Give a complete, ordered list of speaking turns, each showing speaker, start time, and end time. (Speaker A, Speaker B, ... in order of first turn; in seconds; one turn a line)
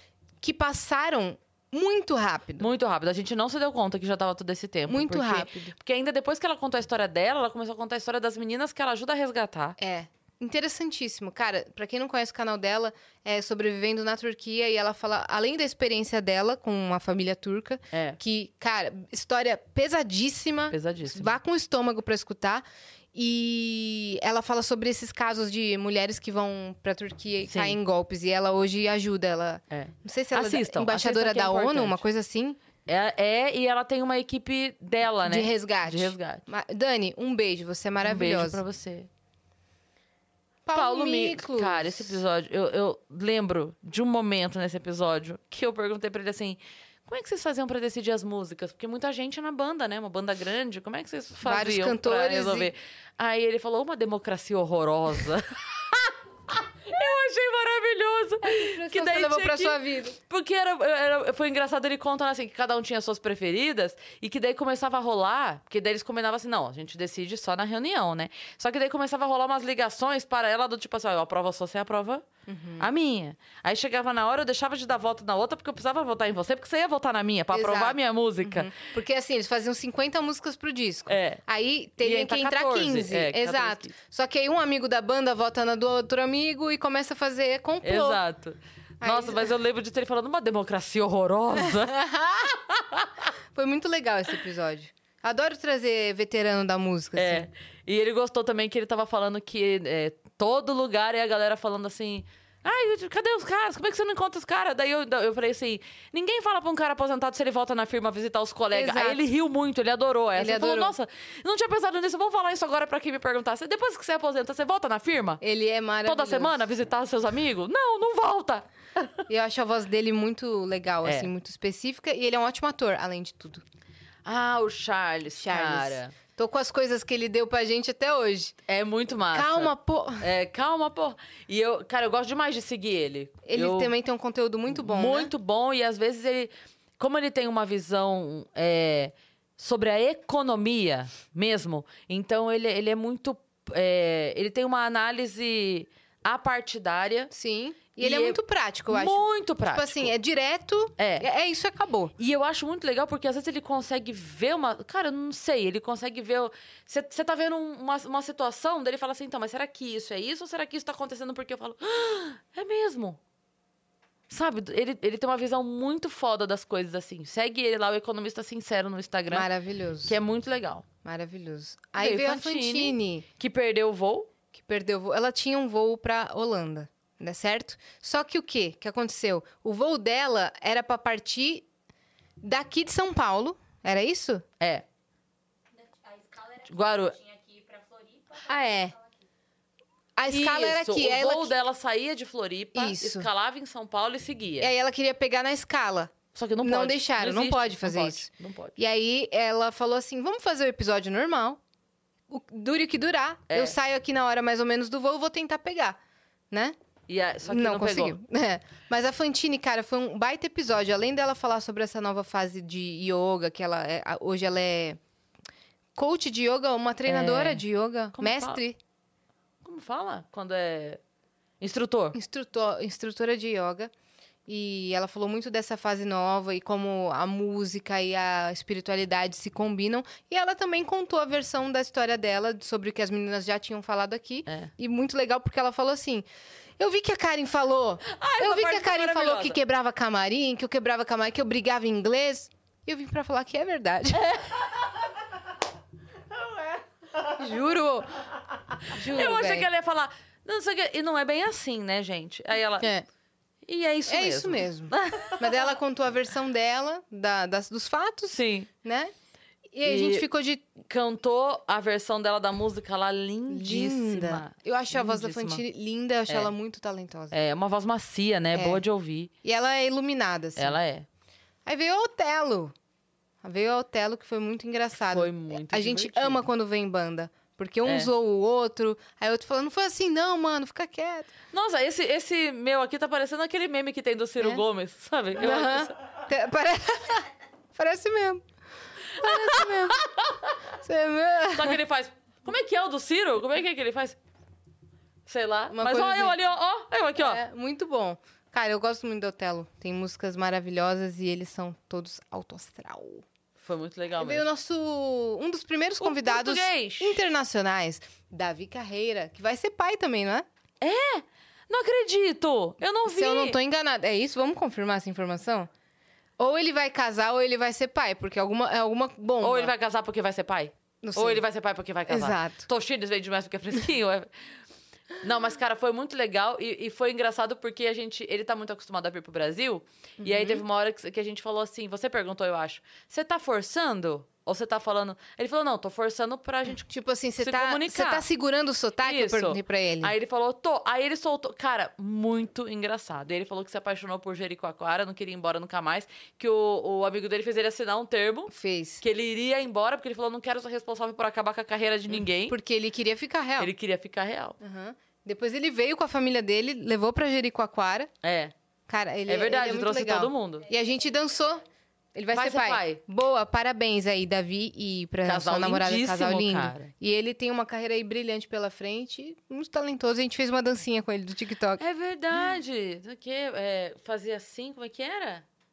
Speaker A: 0.4-2.7
Speaker B: 2.6-9.8
Speaker A: 4.9-5.7
Speaker A: 9.8-32.6
Speaker B: 17.9-18.2
Speaker B: 20.7-21.4
Speaker B: 27.5-27.8
Speaker B: 29.7-32.0
Speaker B: 32.9-36.4
Speaker A: 35.2-38.6
Speaker B: 38.0-39.1
Speaker A: 40.7-42.2
Speaker B: 40.7-72.2
Speaker A: 51.4-52.7
Speaker A: 58.4-60.2
Speaker A: 72.5-72.9
Speaker B: 72.8-78.7
Speaker A: 77.5-88.2
Speaker B: 81.1-81.4
Speaker B: 82.0-83.9
Speaker B: 87.8-91.9
Speaker A: 89.0-89.5
Speaker A: 91.5-92.6
Speaker B: 92.7-93.1
Speaker A: 93.5-97.5
Speaker B: 97.2-115.4
Speaker A: 108.7-109.2
Speaker A: 110.4-111.0
Speaker A: 115.4-116.6
Speaker B: 116.0-119.1
Speaker A: 119.3-123.6
Speaker B: 121.0-121.3
Speaker B: 124.2-126.1
Speaker A: 125.4-128.6
Speaker B: 128.7-133.9
Speaker A: 129.3-130.3
Speaker A: 133.4-135.3
Speaker B: 134.7-147.3
Speaker A: 147.3-152.1
Speaker B: 148.0-150.1
Speaker B: 151.0-151.3
Speaker B: 152.2-163.2
Speaker B: 164.3-169.5
Speaker A: 169.3-170.2
Speaker B: 170.1-170.9
Speaker A: 171.1-173.2
Speaker B: 172.0-174.3
Speaker A: 174.5-181.7
Speaker A: 182.4-184.4
Speaker B: 184.6-184.8
Speaker C: 185.7-189.3
Speaker B: 186.7-187.2
Speaker A: 188.4-188.9
Speaker A: 190.2-191.5
Speaker B: 190.3-194.7
Speaker A: 192.7-193.3
Speaker A: 194.6-201.6
Speaker B: 196.3-198.8
Speaker A: 202.3-206.0
Speaker B: 203.5-203.8
Speaker B: 207.1-208.2
Speaker A: 207.5-215.0
Speaker A: 216.0-218.8
Speaker B: 217.1-218.6
Speaker B: 219.6-221.0
Speaker B: 221.6-222.2
Speaker A: 222.1-223.9
Speaker A: 224.5-236.3
Speaker A: 236.8-244.3
Speaker B: 238.0-239.6
Speaker B: 244.1-244.7
Speaker A: 247.2-248.1
Speaker A: 248.9-249.7
Speaker B: 248.9-252.9
Speaker A: 252.8-253.1
Speaker B: 253.7-255.7
Speaker A: 254.1-259.1
Speaker B: 258.3-258.7
Speaker A: 259.7-260.7
Speaker B: 259.8-260.3
Speaker B: 260.8-265.6
Speaker A: 263.5-267.4
Speaker B: 267.3-269.3
Speaker A: 268.5-268.8
Speaker A: 269.4-270.8
Speaker B: 270.6-271.1
Speaker A: 271.7-272.7
Speaker A: 273.4-281.3
Speaker B: 275.0-276.4
Speaker B: 277.9-278.1
Speaker B: 281.5-285.9
Speaker A: 285.4-288.4
Speaker A: 289.1-290.1
Speaker B: 289.2-290.6
Speaker A: 290.8-291.8
Speaker B: 291.5-294.2
Speaker B: 295.3-297.4
Speaker A: 295.7-296.4
Speaker A: 297.2-303.2
Speaker B: 303.6-304.5
Speaker A: 304.2-310.5
Speaker B: 306.0-307.2
Speaker B: 310.8-313.6
Speaker A: 313.1-315.7
Speaker A: 316.4-319.7
Speaker B: 319.4-324.3
Speaker A: 321.0-321.4
Speaker A: 322.1-322.7
Speaker B: 325.2-338.3
Speaker A: 330.2-330.6
Speaker A: 336.8-340.1
Speaker B: 339.0-352.6
Speaker A: 348.5-349.0
Speaker A: 352.1-353.7
Speaker B: 353.6-354.6
Speaker A: 354.6-358.1
Speaker B: 358.2-358.5
Speaker A: 358.9-361.6
Speaker B: 359.3-360.7
Speaker A: 362.1-371.8
Speaker B: 362.3-363.0
Speaker B: 365.2-366.9
Speaker B: 371.8-375.4